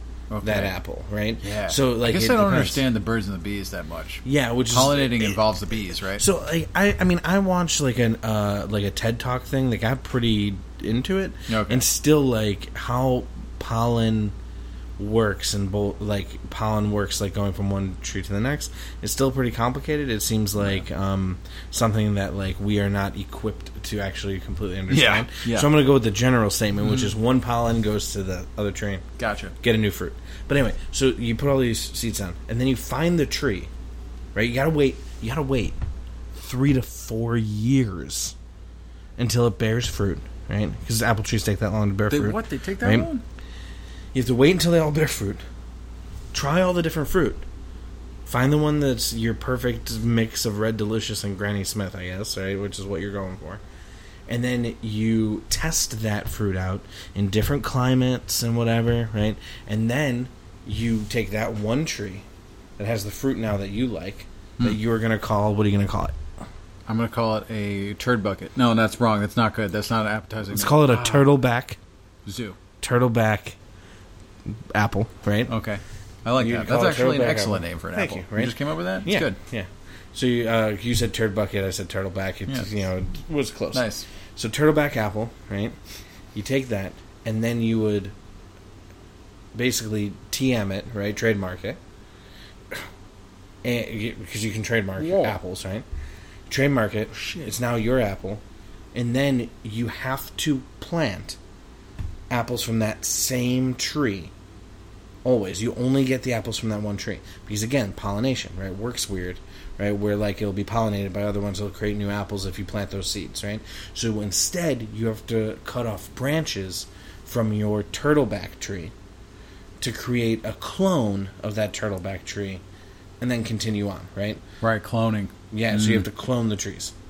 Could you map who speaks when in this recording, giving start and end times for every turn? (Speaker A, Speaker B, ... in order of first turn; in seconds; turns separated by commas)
Speaker A: 0.3-0.8, Speaker B: 0.4-2.8, Speaker A: 1.4-6.2, Speaker B: 4.2-5.4, Speaker B: 6.2-14.3, Speaker A: 11.5-11.9, Speaker B: 15.0-29.0, Speaker A: 24.9-25.7, Speaker A: 26.8-27.1, Speaker A: 29.2-29.5, Speaker B: 29.6-33.7, Speaker B: 34.3-35.8, Speaker B: 36.3-38.3, Speaker B: 39.2-43.1, Speaker A: 42.1-43.2, Speaker B: 44.1-45.4, Speaker B: 46.3-47.5, Speaker B: 48.2-53.6, Speaker B: 54.3-62.2, Speaker B: 62.8-66.2, Speaker A: 66.9-71.3, Speaker B: 70.5-71.8, Speaker A: 72.2-72.6, Speaker B: 72.8-73.6, Speaker B: 74.5-75.5, Speaker A: 75.5-79.4, Speaker B: 76.4-85.8, Speaker A: 83.7-84.0, Speaker B: 86.3-88.1, Speaker B: 89.5-91.8, Speaker B: 93.6-95.8, Speaker A: 95.0-95.4, Speaker B: 96.5-98.4, Speaker A: 97.1-97.5, Speaker B: 98.9-101.4, Speaker B: 102.3-104.3, Speaker B: 105.2-118.9, Speaker B: 119.8-122.6, Speaker B: 123.2-124.4, Speaker A: 124.6-126.1, Speaker B: 125.5-126.9